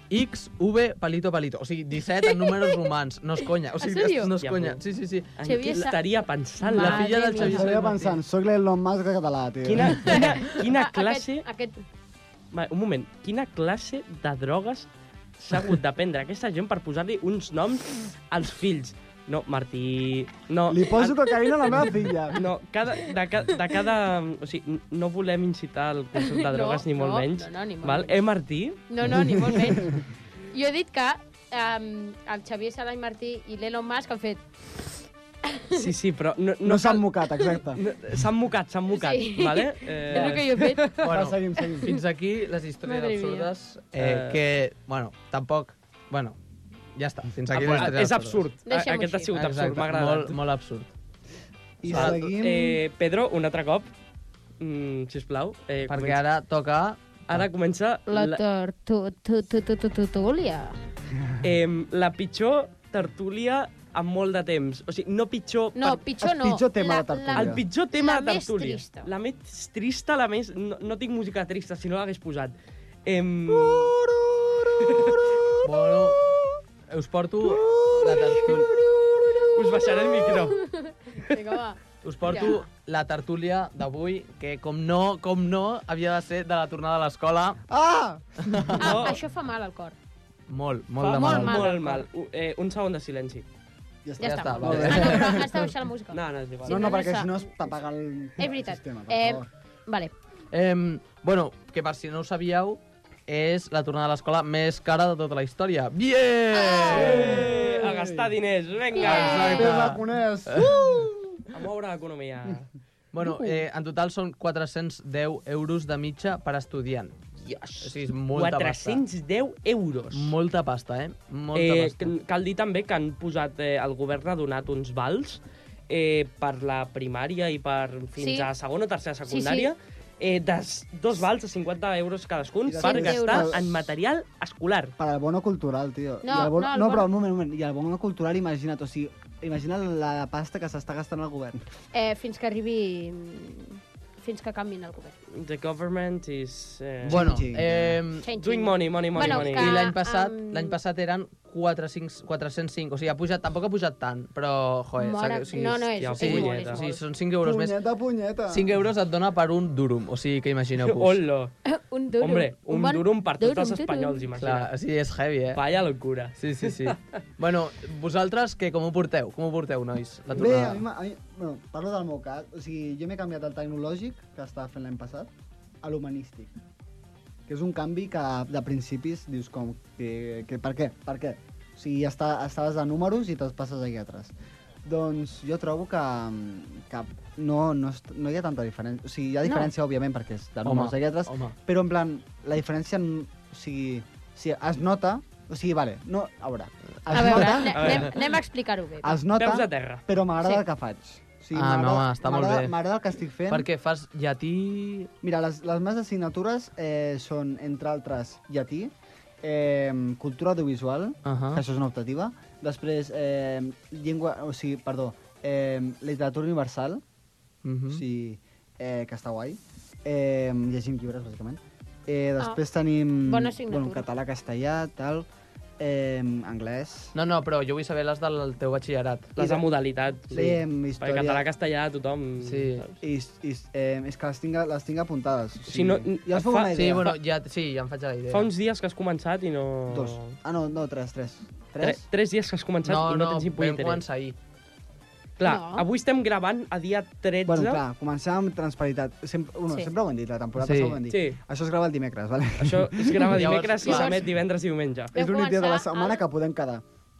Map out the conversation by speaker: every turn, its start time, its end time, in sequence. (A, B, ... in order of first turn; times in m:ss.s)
0:00.1-0:05.3 A
0:02.2-0:02.8 B
0:03.8-0:04.3 B
0:04.4-0:04.8 C
0:05.4-0:07.6 C
0:05.4-0:06.0 B
0:06.6-0:07.7 B
0:06.7-0:08.2 A
0:07.4-0:10.3 D
0:09.6-0:11.4 C
0:10.0-0:11.8 B
0:12.5-0:14.9 C
0:15.4-0:28.8 C
0:20.7-0:22.4 D
0:26.2-0:28.2 B
0:28.9-0:29.9 B
0:29.1-0:30.0 D
0:30.5-0:34.4 B
0:35.4-0:35.8 B
0:35.7-0:41.2 C
0:36.6-0:37.8 D
0:38.9-0:41.0 B
0:41.0-0:41.9 D
0:41.0-0:46.4 A
0:42.8-0:43.5 B
0:44.0-0:44.4 C
0:46.9-0:48.4 A
0:47.5-0:50.4 C
0:48.6-0:49.3 B
0:49.3-0:50.9 A
0:51.8-0:52.8 D
0:51.8-0:52.3 A
0:51.9-0:53.9 C
0:54.6-0:56.2 C
0:55.9-0:57.4 A
0:57.3-0:58.4 C
0:58.1-1:00.8 B
1:01.4-1:06.0 C
1:05.7-1:09.1 B
1:06.2-1:07.6 D
1:07.3-1:12.5 C
1:13.0-1:13.9 C
1:13.5-1:16.6 D
1:14.8-1:15.2 C
1:15.6-1:16.2 A
1:16.9-1:18.7 A
1:17.4-1:20.5 D
1:19.5-1:20.6 C
1:20.5-1:22.6 B
1:22.0-1:27.6 A
1:27.7-1:28.8 D
1:28.4-1:28.9 A
1:28.8-1:30.0 B
1:28.8-1:29.2 C
1:30.5-1:31.7 A
1:31.0-1:32.0 B
1:31.0-1:33.4 C
1:34.0-1:35.7 D
1:34.2-1:37.4 B
1:34.2-1:35.5 A
1:36.1-1:36.8 C
1:36.6-1:39.5 D
1:38.4-1:40.1 B
1:40.5-1:47.4 A
1:46.5-1:47.5 B
1:46.8-1:48.3 D
1:46.9-1:49.9 C
1:48.9-1:49.7 B
1:49.0-1:50.7 A
1:49.0-1:51.5 D
1:51.5-1:52.7 C
1:53.1-1:57.2 A
1:57.4-2:00.3 C
1:57.8-1:59.0 A
2:00.1-2:02.1 A
2:01.5-2:14.9 C
2:08.2-2:08.5 B
2:09.3-2:09.7 B
2:12.6-2:13.6 D
2:12.8-2:13.6 B
2:15.0-2:21.6 D
2:16.2-2:17.1 B
2:21.9-2:25.1 B
2:25.3-2:27.2 C
2:27.0-2:28.0 D
2:27.0-2:28.3 A
2:28.2-2:30.8 B
2:28.4-2:29.9 C
2:29.1-2:37.8 A
2:35.0-2:36.8 B
2:36.0-2:37.0 C
2:37.4-2:38.7 D
2:38.5-2:41.2 A
2:40.8-2:41.5 C
2:41.6-2:44.2 B
2:42.2-2:44.7 C
2:44.4-2:45.6 A
2:45.5-2:47.0 C
2:46.4-2:50.8 A
2:50.3-2:55.3 D
2:55.8-2:56.6 D
2:57.5-3:04.3 D
3:04.8-3:18.1 D
3:09.4-3:09.7 B
3:10.6-3:11.5 A
3:17.1-3:19.2 B
3:17.7-3:18.1 C
3:19.0-3:23.7 D
3:19.4-3:20.0 C
3:21.5-3:22.7 A
3:23.5-3:25.1 A
3:25.2-3:37.0 D
3:31.2-3:31.6 A
3:37.6-3:38.0 A
3:37.9-3:45.3 D
3:43.2-3:44.0 B
3:45.8-3:47.1 D
3:47.1-3:49.3 A
3:49.4-3:53.0 C
3:49.4-3:49.6 D
3:50.3-3:51.5 D
3:52.4-3:52.8 A
3:53.0-3:57.1 D
3:55.7-3:57.2 C
3:56.7-3:58.5 A
3:58.3-4:00.3 C
3:59.9-4:02.0 D
4:01.8-4:04.0 C
4:02.8-4:04.4 A
4:05.4-4:07.8 C
4:05.4-4:05.8 B
4:07.4-4:13.6 D
4:10.6-4:11.0 A
4:11.1-4:11.4 C
4:12.6-4:15.1 C
4:13.3-4:14.2 A
4:13.8-4:14.2 B
4:15.1-4:16.8 D
4:15.1-4:16.2 B